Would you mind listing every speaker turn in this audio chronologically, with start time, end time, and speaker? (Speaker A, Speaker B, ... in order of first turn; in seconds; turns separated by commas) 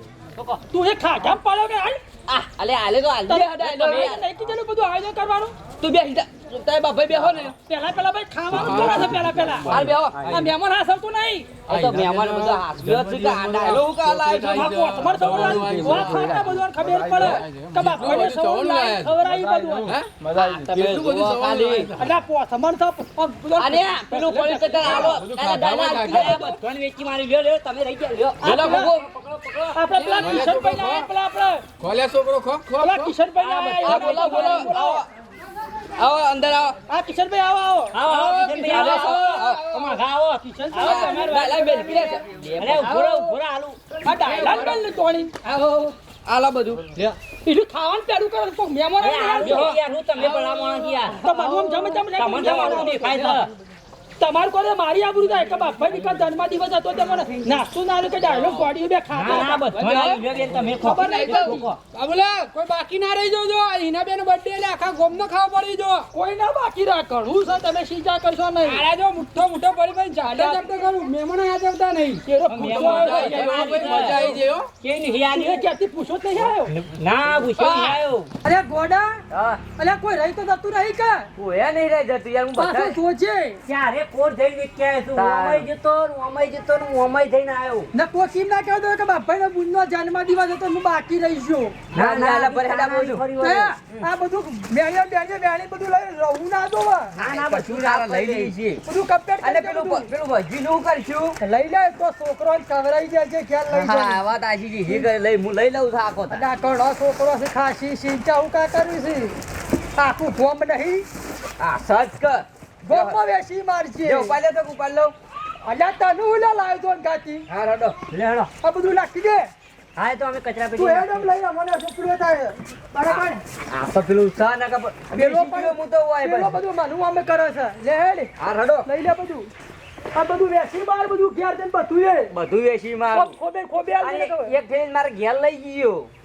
Speaker A: 0.3-0.6, Speaker B: 0.7-2.0, Speaker C: 2.3-4.2, Speaker B: 3.3-5.5, Speaker C: 5.8-7.5, Speaker B: 7.5-11.5, Speaker D: 8.5-10.5, Speaker C: 8.7-9.1, Speaker C: 9.7-10.5, Speaker D: 11.7-22.1, Speaker C: 11.7-16.6, Speaker B: 14.4-19.9, Speaker C: 20.3-21.9, Speaker B: 22.0-25.2, Speaker C: 23.6-26.6, Speaker D: 24.8-26.6, Speaker A: 25.8-30.4, Speaker B: 28.4-29.0, Speaker D: 28.4-29.0, Speaker C: 28.6-29.0, Speaker B: 29.7-31.6, Speaker D: 29.9-31.1, Speaker D: 31.8-33.2, Speaker B: 32.8-35.0, Speaker A: 33.4-34.5, Speaker D: 33.8-34.9, Speaker C: 33.8-35.0, Speaker C: 36.0-36.8, Speaker B: 36.9-39.4, Speaker A: 37.9-43.8, Speaker C: 38.4-39.6, Speaker D: 38.5-39.5, Speaker B: 40.4-42.2, Speaker C: 40.8-43.1, Speaker B: 44.0-45.4, Speaker D: 44.3-44.6, Speaker C: 44.3-44.6, Speaker C: 46.2-46.9, Speaker B: 47.4-49.8, Speaker A: 49.0-51.2, Speaker C: 49.4-49.8, Speaker B: 51.1-53.4, Speaker A: 52.2-53.5, Speaker B: 54.2-61.7, Speaker A: 59.1-61.8, Speaker E: 61.0-66.0, Speaker B: 66.1-68.8, Speaker E: 68.7-72.2, Speaker B: 70.3-70.9, Speaker B: 72.2-74.4, Speaker A: 72.5-75.7, Speaker D: 73.2-74.7, Speaker B: 75.3-76.7, Speaker A: 76.7-78.3, Speaker B: 77.5-79.2, Speaker C: 79.3-79.6, Speaker B: 79.8-81.3, Speaker C: 81.3-83.0, Speaker B: 82.6-83.6, Speaker A: 83.7-87.9, Speaker C: 85.1-85.7, Speaker B: 87.9-91.7, Speaker C: 91.9-93.2, Speaker A: 91.9-94.0, Speaker B: 93.4-97.1, Speaker A: 97.2-98.5, Speaker C: 97.2-98.8, Speaker B: 98.8-100.1, Speaker C: 99.4-101.4, Speaker B: 101.4-104.2, Speaker C: 103.7-106.5, Speaker B: 106.3-109.3, Speaker B: 110.0-111.0, Speaker C: 111.6-113.2, Speaker B: 112.8-114.3, Speaker C: 114.0-115.1, Speaker B: 115.6-117.4, Speaker C: 117.5-118.0, Speaker A: 118.1-118.5, Speaker B: 118.6-119.5, Speaker A: 120.0-121.3, Speaker B: 120.7-123.4, Speaker C: 123.1-126.6, Speaker B: 125.1-128.3, Speaker C: 128.4-128.9, Speaker B: 128.8-129.5, Speaker B: 130.1-132.3, Speaker C: 132.3-133.4, Speaker B: 133.1-134.6, Speaker C: 134.0-136.1